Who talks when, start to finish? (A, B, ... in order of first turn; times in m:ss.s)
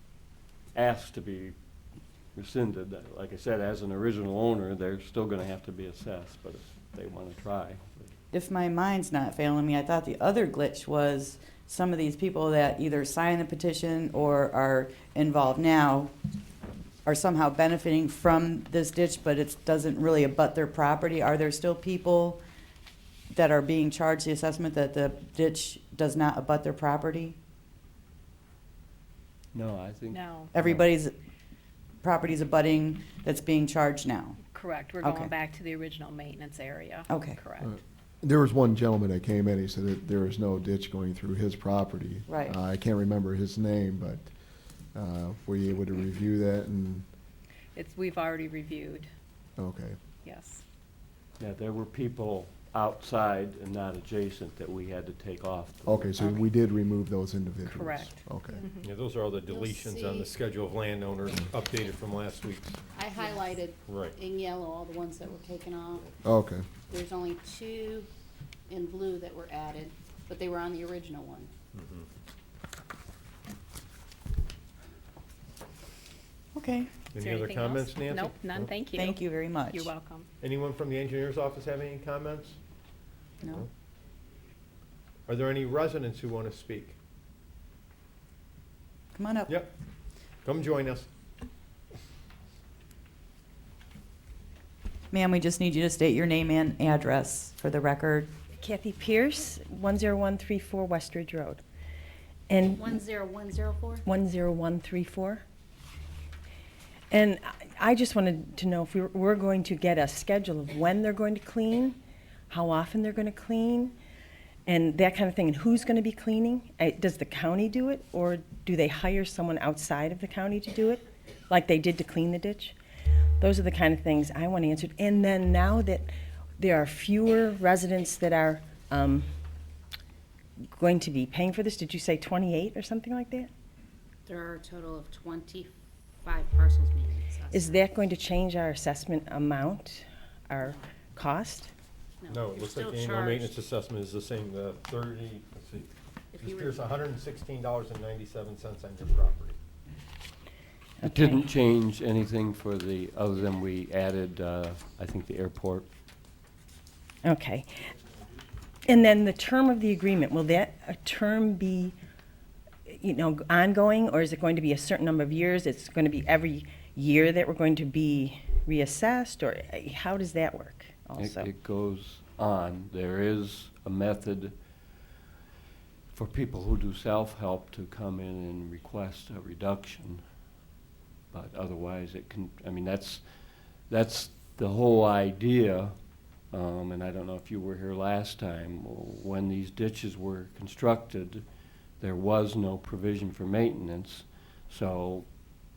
0:00.7-0:01.6 A
0:02.4-0:08.1 A
0:08.3-0:16.1 B
0:17.0-0:22.4 B
0:23.3-0:27.4 B
0:29.5-0:30.8 A
0:30.1-0:30.5 C
0:30.5-0:31.1 B
0:32.0-0:34.4 B
0:34.5-0:37.7 C
0:35.0-0:35.3 B
0:37.1-0:37.4 B
0:37.6-0:44.3 D
0:42.3-0:42.6 B
0:44.9-0:47.1 D
0:47.8-0:49.1 C
0:49.6-0:50.0 D
0:50.2-0:50.6 C
0:51.4-0:56.1 A
0:55.9-0:58.6 D
0:57.7-0:58.9 C
0:58.8-1:02.9 E
0:59.4-1:00.4 F
1:02.9-1:06.2 F
1:03.9-1:04.2 E
1:06.2-1:06.7 D
1:06.9-1:08.1 F
1:08.7-1:11.5 F
1:11.7-1:12.1 E
1:16.6-1:17.1 B
1:17.1-1:18.8 E
1:17.2-1:20.3 C
1:18.9-1:19.9 B
1:20.4-1:22.6 E
1:25.3-1:27.0 E
1:29.2-1:29.6 B
1:30.4-1:31.1 E
1:35.1-1:38.3 B
1:38.6-1:41.6 G
1:42.5-1:42.9 G
1:42.7-1:44.1 F
1:44.1-1:45.4 G
1:47.1-1:52.0 G
1:52.5-1:53.9 G
1:54.7-2:02.8 G
2:03.4-2:06.1 G
2:06.6-2:09.3 G
2:10.7-2:13.5 G
2:14.3-2:17.9 F
2:17.5-2:21.7 G
2:22.2-2:23.6 F
2:22.3-2:29.6 E
2:26.3-2:26.9 F
2:31.0-2:31.4 G
2:31.0-2:35.9 A
2:37.2-2:37.8 G
2:38.9-2:42.0 G
2:42.9-2:51.5 G
2:51.2-2:54.5 A
2:56.1-3:00.2 A
3:01.3-3:03.2 A
3:03.9-3:06.0 A
3:06.5-3:11.4 A
3:12.0-3:15.3 A